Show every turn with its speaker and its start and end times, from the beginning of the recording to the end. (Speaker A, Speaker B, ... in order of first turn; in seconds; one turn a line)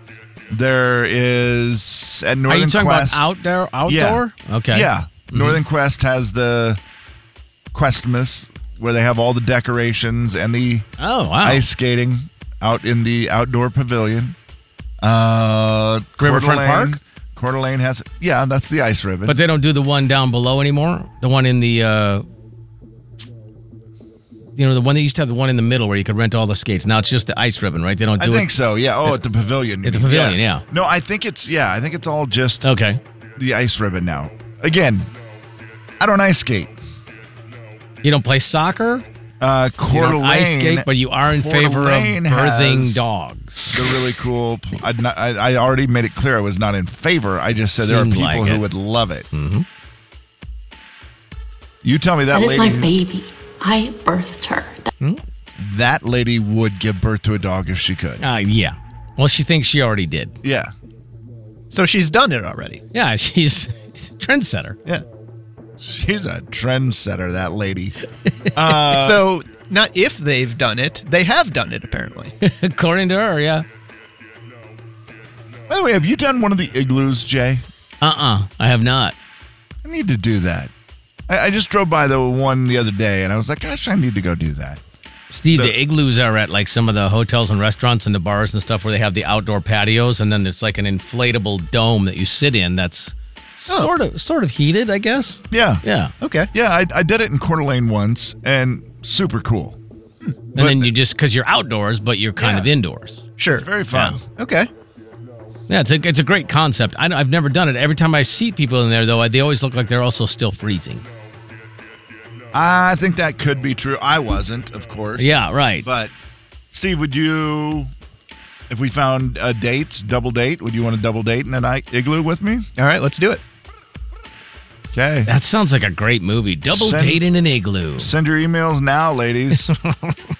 Speaker A: 0.5-3.3
Speaker B: 2.5-5.6
Speaker A: 3.9-6.8
Speaker A: 7.7-10.9
Speaker B: 11.0-11.6
Speaker A: 11.4-14.4
Speaker A: 15.0-19.4
Speaker B: 16.2-17.0
Speaker B: 19.3-22.2
Speaker B: 24.6-29.1
Speaker A: 28.2-32.7
Speaker B: 29.8-30.6
Speaker B: 32.6-33.0
Speaker A: 33.4-35.1
Speaker A: 36.0-36.7
Speaker B: 38.0-39.0
Speaker A: 39.4-43.1
Speaker B: 39.9-43.7
Speaker A: 43.7-49.3
Speaker B: 47.7-48.6
Speaker B: 49.3-49.7
Speaker A: 51.8-53.0
Speaker C: 52.3-54.9
Speaker A: 55.6-58.2
Speaker B: 58.2-60.4
Speaker A: 60.4-60.7
Speaker D: 61.7-62.8
Speaker B: 62.9-64.8
Speaker A: 65.8-68.0
Speaker A: 68.5-69.2
Speaker D: 68.9-72.3
Speaker B: 72.4-73.7
Speaker A: 75.7-77.7
Speaker B: 78.0-79.2
Speaker A: 79.8-80.7
Speaker A: 81.3-84.8
Speaker B: 85.3-96.1
Speaker A: 95.5-95.8
Speaker D: 96.2-96.5
Speaker A: 96.5-99.8
Speaker A: 100.6-100.9
Speaker B: 100.6-103.2
Speaker D: 103.4-103.7
Speaker A: 103.5-104.2
Speaker B: 103.9-104.2
Speaker D: 104.4-104.7
Speaker B: 105.7-111.0
Speaker A: 112.5-116.1
Speaker B: 115.2-115.9
Speaker A: 116.7-117.9
Speaker A: 118.7-122.7
Speaker D: 122.8-123.4
Speaker A: 124.9-125.3
Speaker B: 125.3-128.1
Speaker A: 126.7-127.2
Speaker A: 128.0-129.7
Speaker B: 129.6-130.2